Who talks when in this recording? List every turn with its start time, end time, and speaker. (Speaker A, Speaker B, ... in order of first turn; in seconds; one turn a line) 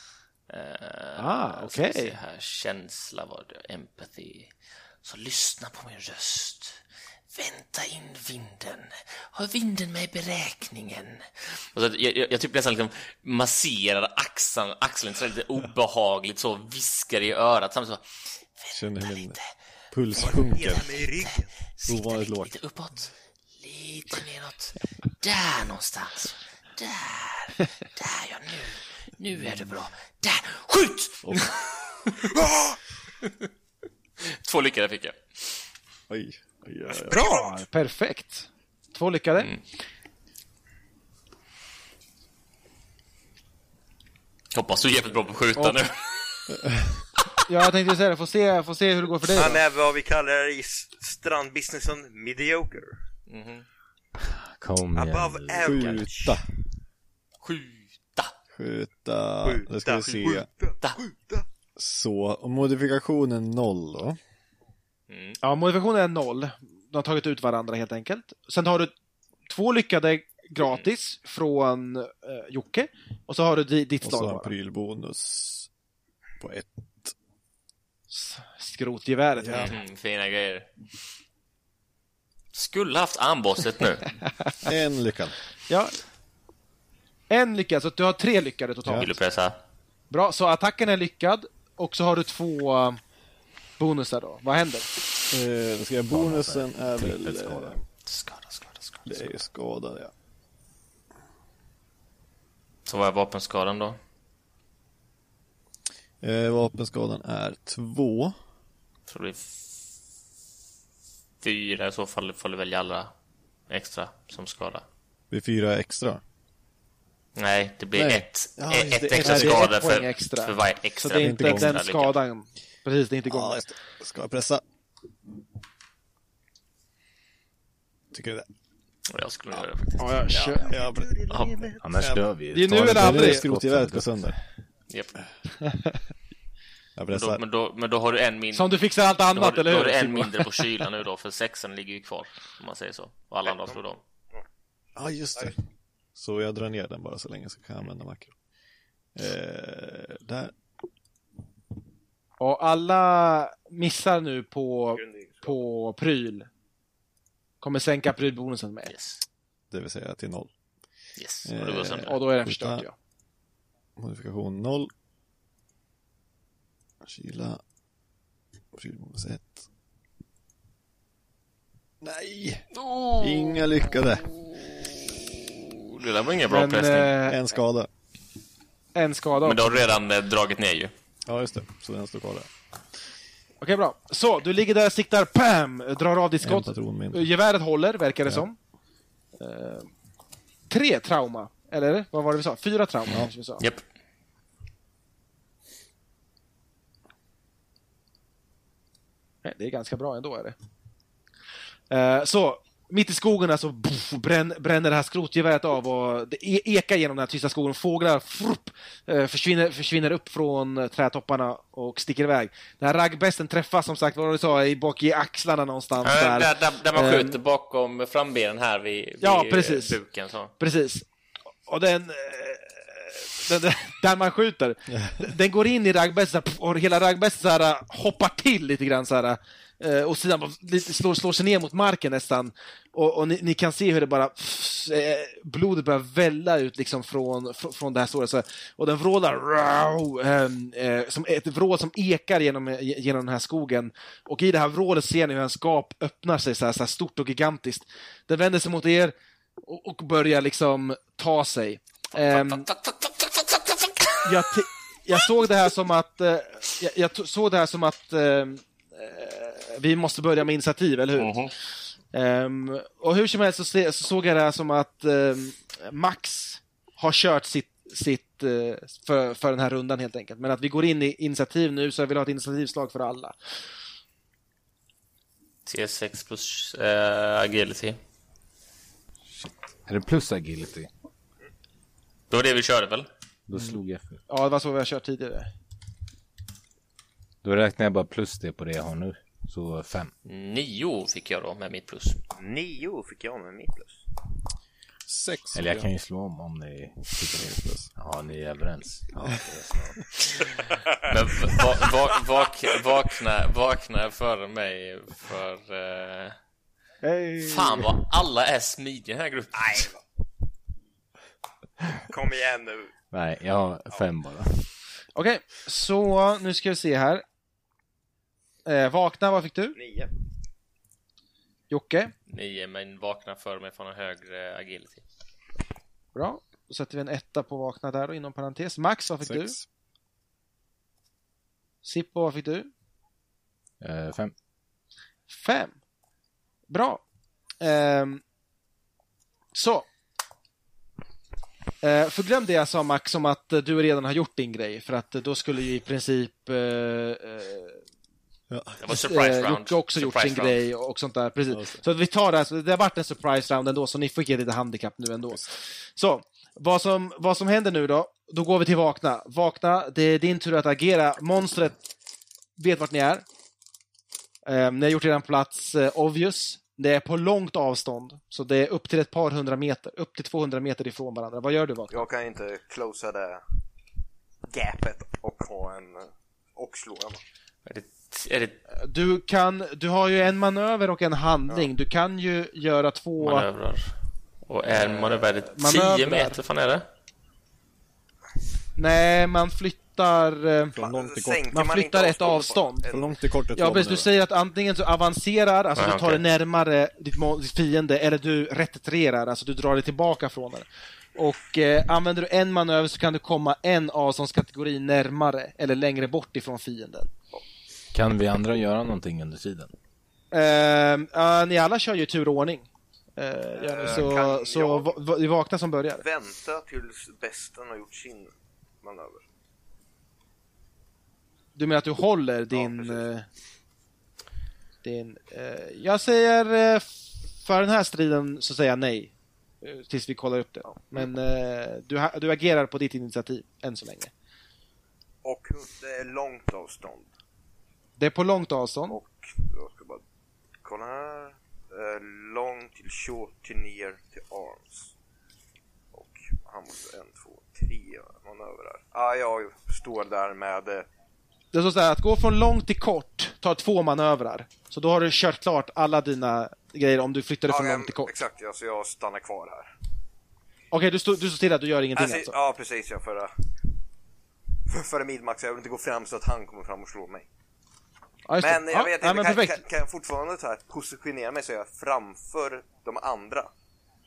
Speaker A: 0.5-19.5
Speaker B: 1.1-2.1
Speaker C: 18.7-19.4
Speaker C: 19.9-20.9
Speaker A: 20.1-32.3
Speaker D: 20.7-21.5
Speaker C: 21.9-22.5
Speaker C: 31.2-31.5
Speaker A: 34.2-35.6
Speaker C: 36.1-37.2
Speaker D: 36.9-37.6
Speaker B: 37.1-39.5
Speaker A: 44.5-46.5
Speaker B: 47.5-49.6
Speaker D: 49.3-53.0
Speaker A: 53.3-53.7
Speaker E: 54.2-56.1
Speaker D: 55.0-56.4
Speaker C: 55.6-56.5
Speaker A: 57.4-58.3
Speaker C: 58.5-60.5
Speaker D: 59.4-61.5
Speaker C: 61.8-64.2
Speaker A: 65.1-65.4
Speaker B: 65.4-68.9
Speaker B: 69.5-74.5
Speaker C: 74.0-75.7
Speaker C: 76.4-77.1
Speaker B: 78.1-79.7
Speaker C: 79.4-79.7
Speaker A: 79.5-80.8
Speaker A: 82.5-84.1
Speaker C: 84.6-85.3
Speaker B: 85.7-86.0
Speaker B: 87.3-89.1
Speaker A: 89.0-89.6
Speaker B: 90.1-93.0
Speaker B: 93.8-94.9
Speaker C: 95.3-97.8
Speaker E: 96.1-97.8
Speaker A: 98.0-99.3
Speaker C: 99.0-100.1
Speaker A: 102.8-104.0
Speaker C: 106.2-108.3
Speaker A: 109.1-109.8
Speaker A: 111.4-113.1
Speaker A: 113.7-114.8
Speaker C: 115.3-116.2
Speaker A: 117.3-122.2
Speaker C: 117.9-119.7
Speaker B: 119.0-123.6
Speaker C: 121.1-121.8
Speaker C: 123.2-124.6
Speaker C: 128.1-128.5
Speaker A: 129.1-130.6
Speaker B: 130.0-130.7
Speaker D: 130.6-131.8
Speaker C: 130.6-134.4
Speaker A: 131.3-131.7
Speaker E: 131.8-134.3
Speaker B: 132.5-133.5
Speaker A: 134.9-135.1
Speaker B: 135.6-135.9
Speaker C: 136.9-137.4
Speaker A: 137.1-138.7
Speaker B: 138.5-140.8
Speaker A: 139.3-144.0
Speaker D: 143.4-143.8
Speaker C: 145.0-145.6
Speaker C: 146.1-148.3
Speaker C: 149.1-150.5
Speaker B: 152.4-156.5
Speaker D: 154.9-155.6
Speaker B: 157.6-158.9
Speaker A: 158.9-159.2
Speaker C: 159.7-160.5
Speaker A: 161.2-162.2
Speaker C: 161.4-162.8
Speaker B: 161.9-162.9
Speaker C: 164.0-164.9
Speaker C: 167.0-167.6
Speaker C: 168.7-169.6
Speaker C: 172.0-174.4
Speaker A: 172.8-173.7
Speaker A: 174.6-177.1
Speaker B: 176.5-177.4
Speaker C: 177.2-177.9
Speaker B: 178.9-179.8
Speaker A: 179.4-180.9
Speaker C: 181.2-182.5
Speaker B: 183.6-188.6
Speaker C: 186.4-187.3
Speaker B: 189.4-189.9
Speaker B: 190.7-193.6
Speaker B: 199.4-200.6
Speaker B: 201.9-217.4
Speaker A: 216.0-220.5
Speaker B: 219.2-220.0
Speaker B: 220.6-221.1
Speaker B: 221.7-252.7
Speaker C: 224.9-225.2
Speaker A: 252.3-254.2
Speaker B: 254.2-261.3
Speaker A: 261.2-261.5
Speaker B: 262.1-273.3
Speaker A: 275.6-278.0
Speaker E: 279.4-280.9
Speaker A: 282.3-283.1
Speaker E: 283.5-284.2
Speaker B: 284.3-285.5
Speaker E: 287.4-290.1
Speaker A: 290.2-292.2
Speaker D: 292.4-294.0
Speaker C: 295.1-295.9
Speaker E: 295.5-300.0
Speaker C: 297.4-297.9
Speaker A: 301.1-306.4
Speaker B: 307.0-307.9
Speaker A: 307.4-309.9
Speaker D: 309.5-310.0
Speaker D: 312.1-312.9
Speaker E: 313.1-314.6
Speaker B: 315.1-317.2
Speaker B: 318.6-319.8
Speaker D: 319.7-320.1
Speaker B: 321.7-322.1
Speaker A: 322.3-325.0
Speaker B: 326.1-329.5
Speaker C: 329.2-329.6
Speaker B: 331.8-332.7
Speaker E: 333.8-334.3
Speaker B: 335.3-335.8
Speaker B: 336.7-337.0
Speaker B: 337.6-338.2
Speaker B: 339.5-339.9
Speaker B: 341.8-347.8
Speaker C: 348.5-348.9
Speaker A: 348.8-350.6
Speaker B: 348.9-361.9
Speaker C: 351.5-351.8
Speaker B: 362.6-363.2
Speaker B: 364.4-372.1
Speaker D: 371.9-373.4
Speaker D: 374.5-377.2
Speaker A: 377.6-378.6
Speaker B: 378.8-383.4
Speaker A: 383.2-383.9
Speaker A: 384.4-386.9
Speaker B: 384.8-386.4
Speaker B: 388.8-390.8
Speaker C: 390.7-391.5
Speaker D: 390.8-393.1
Speaker B: 391.5-392.9
Speaker C: 392.9-394.1
Speaker B: 393.5-407.1
Speaker A: 395.8-396.2
Speaker E: 407.9-409.7
Speaker B: 410.3-416.0
Speaker D: 413.6-415.0
Speaker D: 416.0-419.2
Speaker B: 421.6-423.3
Speaker D: 422.5-423.0
Speaker B: 424.8-426.9
Speaker B: 427.4-434.1
Speaker D: 435.2-437.1
Speaker B: 438.0-439.0
Speaker D: 438.9-440.0
Speaker D: 440.6-444.9
Speaker D: 445.9-450.9
Speaker B: 451.5-458.1
Speaker D: 457.5-459.7
Speaker B: 460.7-462.3
Speaker D: 461.9-463.3
Speaker D: 464.7-467.3
Speaker B: 468.3-469.6
Speaker D: 468.4-473.5